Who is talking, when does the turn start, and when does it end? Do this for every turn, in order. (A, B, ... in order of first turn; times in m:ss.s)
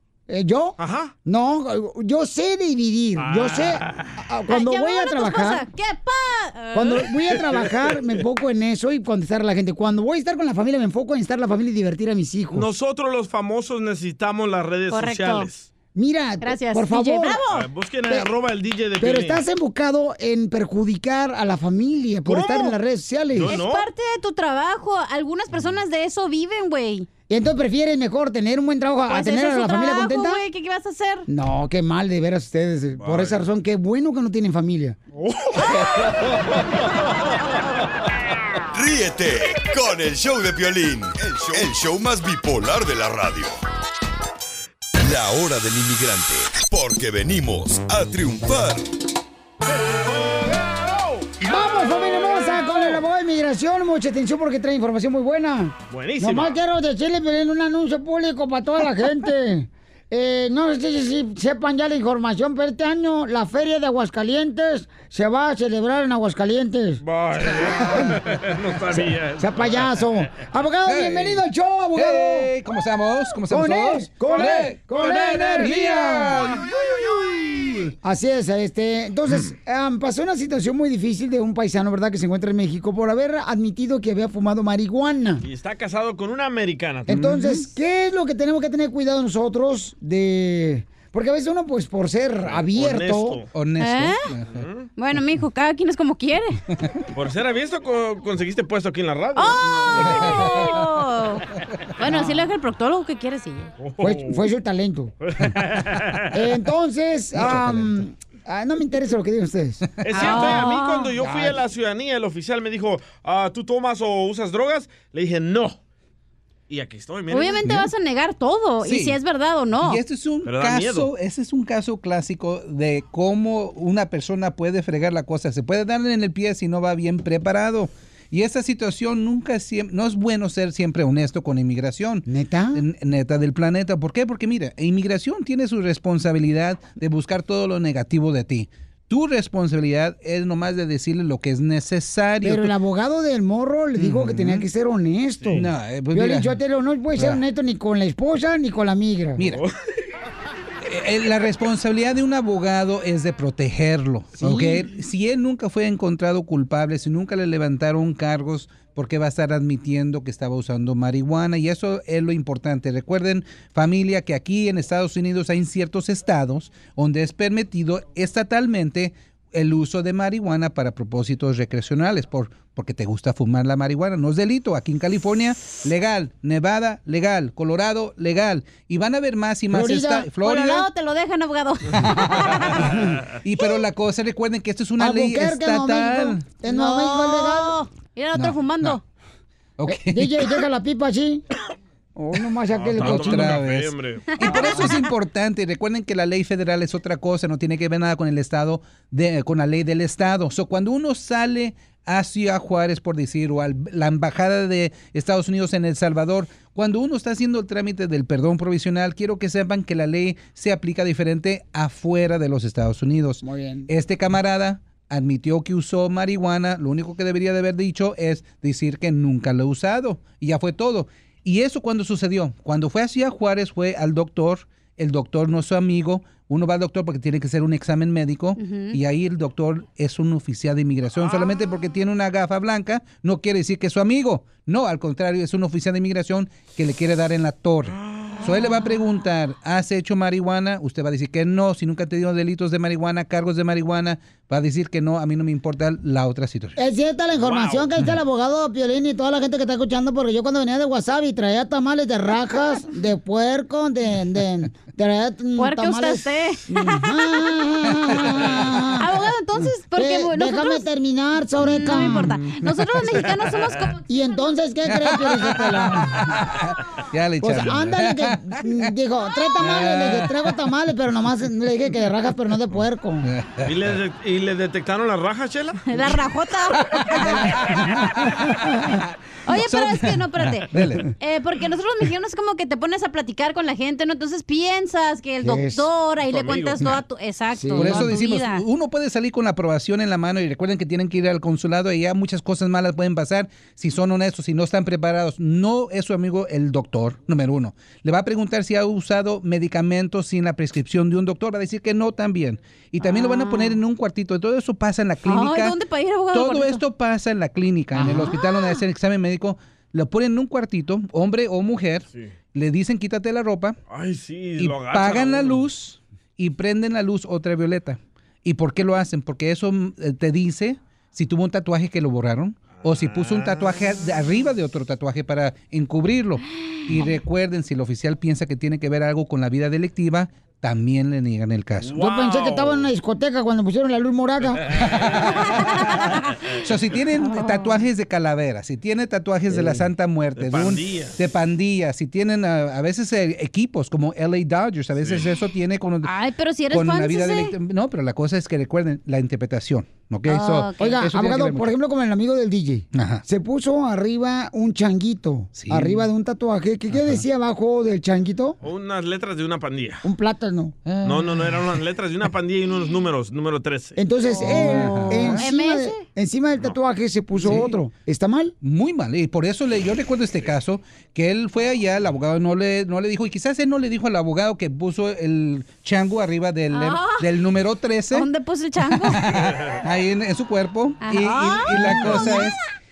0:00.3-0:05.6 A
0:00.8-0:01.1 B
0:03.2-0:04.1 B
0:04.5-0:07.0 C
0:06.7-0:12.7 A
0:07.4-0:07.8 B
0:12.5-0:15.7 B
0:14.9-0:15.5 C
0:15.9-0:17.4 A
0:16.4-0:17.7 C
0:17.5-0:19.4 B
0:19.0-0:23.6 A
0:22.2-0:22.8 B
0:23.3-0:23.9 B
0:23.5-0:27.1 C
0:27.3-0:30.4 A
0:29.1-0:31.2 C
0:31.3-0:35.0 A
0:33.0-0:33.4 B
0:35.2-0:36.3 B
0:38.7-0:43.6 D
0:45.0-0:48.9 D
0:51.4-1:08.2 A
0:51.8-0:52.2 B
0:55.9-0:56.6 B
1:07.0-1:10.0 B
1:08.9-1:12.5 A
1:10.8-1:11.4 E
1:11.9-1:16.6 E
1:13.5-1:16.6 A
1:17.4-1:17.8 E
1:18.0-1:25.4 A
1:25.4-1:27.3 B
1:27.1-1:33.4 A
1:27.1-1:27.6 E
1:32.4-1:33.5 B
1:33.5-1:34.6 E
1:33.8-1:34.2 C
1:34.5-1:34.9 B
1:35.0-1:36.6 C
1:37.1-1:40.5 B
1:39.4-1:41.4 C
1:42.0-1:43.7 C
1:42.0-1:42.4 A
1:43.8-1:44.4 B
1:44.0-1:45.1 A
1:45.3-1:46.3 B
1:46.3-1:49.8 A
1:47.4-1:47.7 E
1:50.0-1:55.8 B
1:50.1-1:51.1 C
1:51.2-1:51.6 A
1:56.7-1:57.7 B
1:57.3-2:00.0 C
1:57.6-1:57.9 E
1:58.8-1:59.2 E
1:59.8-2:22.7 E
2:00.4-2:01.1 B
2:12.3-2:12.8 A
2:22.4-2:29.5 A
2:24.0-2:24.7 E
2:25.5-2:26.5 E
2:27.2-2:27.4 E
2:30.8-3:00.8 E
2:34.4-2:34.9 A
2:59.7-3:00.8 A
3:00.4-3:03.0 C
3:02.3-3:03.1 A
3:03.4-3:06.5 E
3:05.0-3:07.7 A
3:06.6-3:09.0 C
3:08.3-3:09.0 E
3:09.8-3:10.5 E
3:09.8-3:11.4 A
3:12.2-3:13.6 A
3:12.7-3:14.2 B
3:13.0-4:06.8 E
3:14.4-3:15.0 C
3:14.5-3:14.7 A
3:33.4-3:33.9 A
3:48.6-3:49.0 C
3:58.4-3:58.9 C
4:06.8-4:22.4 A
4:07.4-4:07.9 B
4:15.6-4:17.5 C
4:19.0-4:20.9 C
4:21.6-4:22.2 E
4:21.7-4:24.5 C
4:24.0-4:26.4 A
4:24.8-4:28.9 E
4:27.4-4:33.3 A
4:29.6-4:30.5 E
4:33.2-4:33.7 E
4:33.6-4:35.8 B
4:35.9-4:37.5 C
4:38.0-4:38.8 A
4:39.4-4:48.6 C
4:39.5-4:41.1 E
4:45.4-4:45.9 A
4:46.3-4:47.0 B
4:47.5-4:48.2 A
4:47.8-5:05.8 E
5:03.0-5:03.8 C
5:05.2-5:06.8 C
5:06.3-5:13.8 E
5:07.9-5:08.4 A
5:08.2-5:08.8 C
5:13.9-5:15.6 B
5:14.6-5:32.0 E
5:22.8-5:23.7 B
5:26.9-5:27.2 C
5:31.8-5:32.9 B
5:31.9-5:34.7 A
5:34.9-5:35.2 E
5:35.5-5:36.2 C
5:36.6-5:46.1 E
5:37.2-5:37.9 C
5:39.5-5:39.8 A
5:40.4-5:41.2 B
5:45.0-5:45.2 B
5:46.0-5:47.5 C
5:46.7-5:51.7 E
5:50.3-5:51.0 C
5:50.8-5:58.6 A
5:52.9-5:53.2 E
5:55.5-5:56.0 E
5:56.9-5:57.2 E
5:58.6-6:00.0 B
6:00.0-6:00.8 A
6:00.8-6:01.6 E
6:01.0-6:04.0 B
6:04.0-6:08.5 A
6:04.3-6:06.0 C
6:04.4-6:05.4 E
6:07.4-6:07.8 E
6:08.6-6:18.3 E
6:16.7-6:17.3 C
6:18.1-6:19.2 C
6:18.9-6:22.6 E
6:21.0-6:22.6 C
6:21.8-6:22.4 A